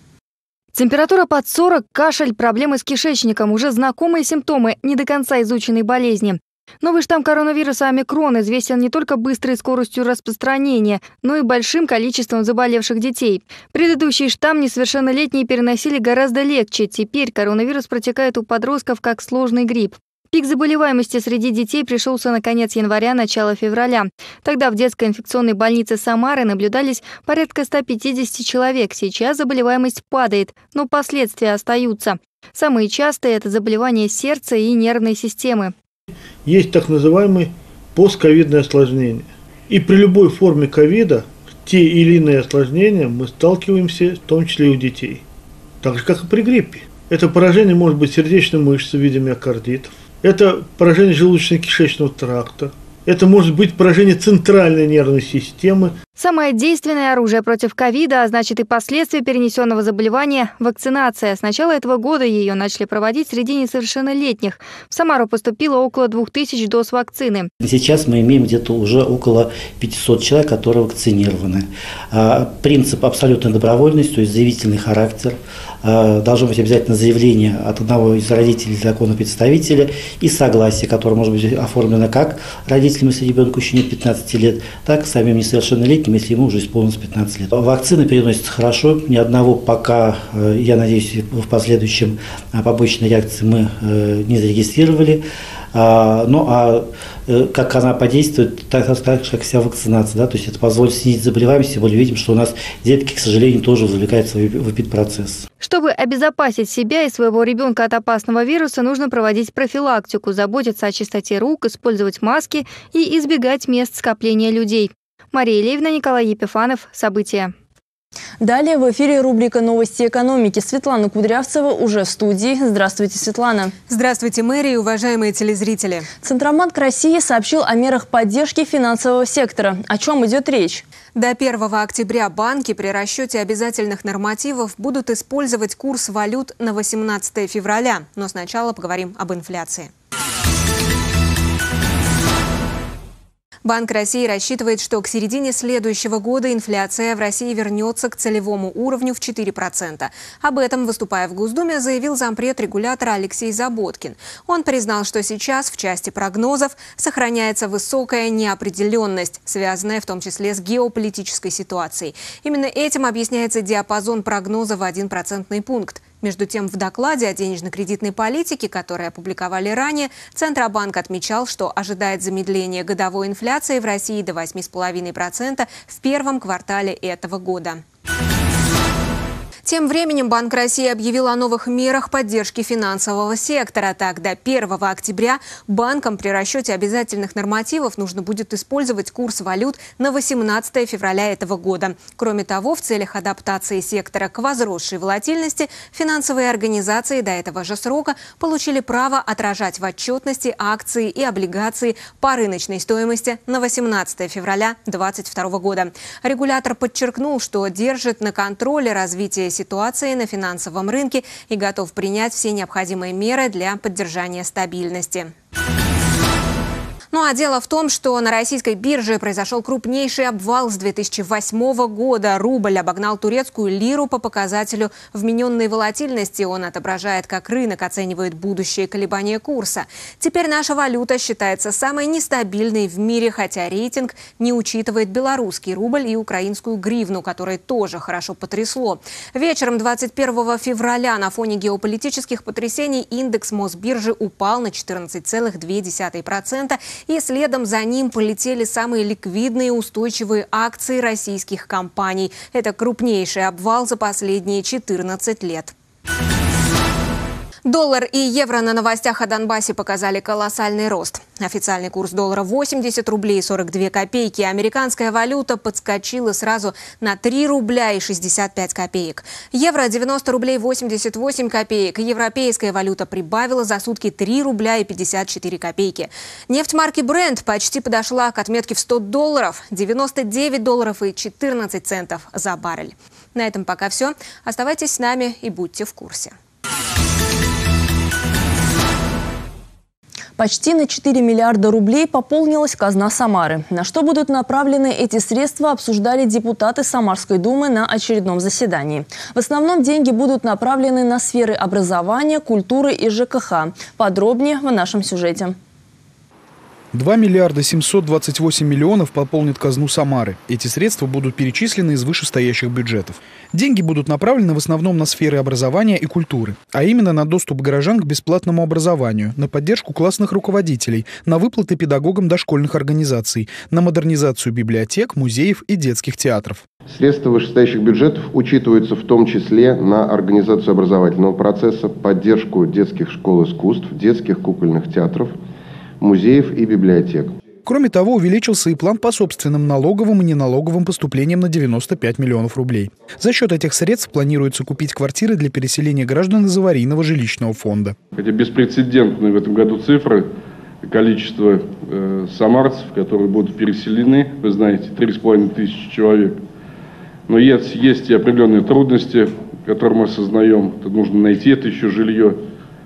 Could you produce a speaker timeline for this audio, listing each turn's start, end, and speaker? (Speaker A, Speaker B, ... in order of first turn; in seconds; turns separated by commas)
Speaker A: 0.7-35.7, Speaker B: 36.5-45.2, Speaker B: 45.8-55.9, Speaker A: 56.2-67.5, Speaker C: 67.6-105.5, Speaker A: 105.6-117.5, Speaker D: 118.4-123.7, Speaker E: 123.9-126.1, Speaker D: 126.2-130.8, Speaker E: 131.2-139.9, Speaker E: 143.7-177.8, Speaker E: 179.7-215.3, Speaker E: 217.1-255.7, Speaker E: 257.6-286.4, Speaker D: 290.4-305.6, Speaker F: 306.9-326.6, Speaker G: 326.9-335.4, Speaker G: 336.0-337.3, Speaker F: 337.7-348.0, Speaker H: 348.2-350.3, Speaker H: 350.8-356.4, Speaker H: 357.3-362.4